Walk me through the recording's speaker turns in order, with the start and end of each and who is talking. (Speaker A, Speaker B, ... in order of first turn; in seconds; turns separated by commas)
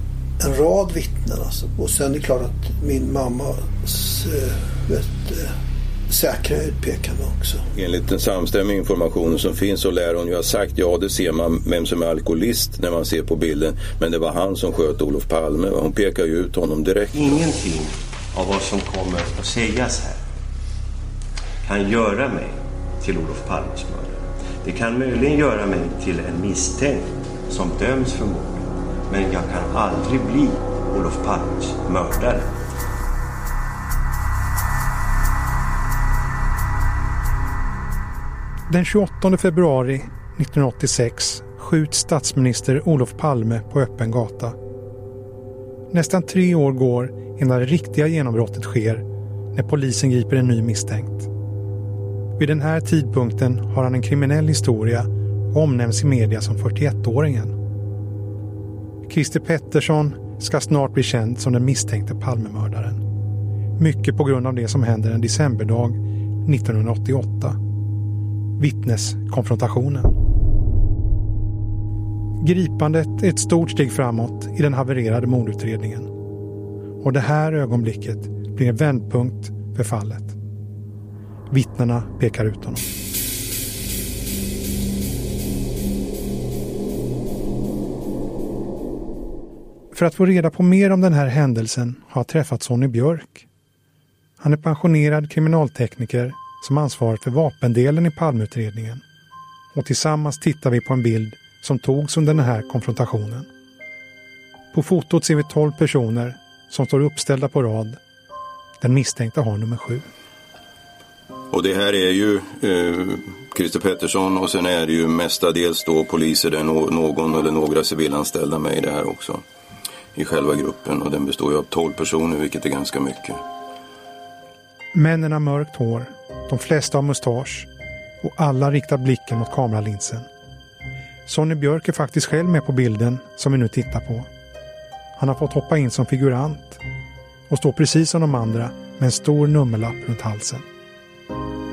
Speaker A: 0.4-5.5, Speaker A: 6.1-7.6, Speaker B: 7.7-17.4, Speaker C: 17.1-20.2, Speaker C: 21.6-32.5, Speaker D: 38.7-44.5, Speaker D: 45.9-51.3, Speaker D: 52.4-57.5, Speaker D: 59.0-63.0, Speaker D: 63.8-67.6, Speaker D: 68.6-70.1, Speaker D: 72.4-76.1, Speaker D: 77.0-80.3, Speaker D: 81.5-82.9, Speaker D: 89.9-93.5, Speaker D: 94.4-99.0, Speaker D: 99.7-103.5, Speaker D: 104.7-108.0, Speaker D: 108.8-110.0, Speaker B: 111.5-119.4, Speaker B: 120.1-123.4, Speaker D: 124.9-127.7, Speaker D: 128.2-130.3, Speaker D: 131.2-134.3, Speaker D: 135.2-136.8, Speaker D: 137.5-140.6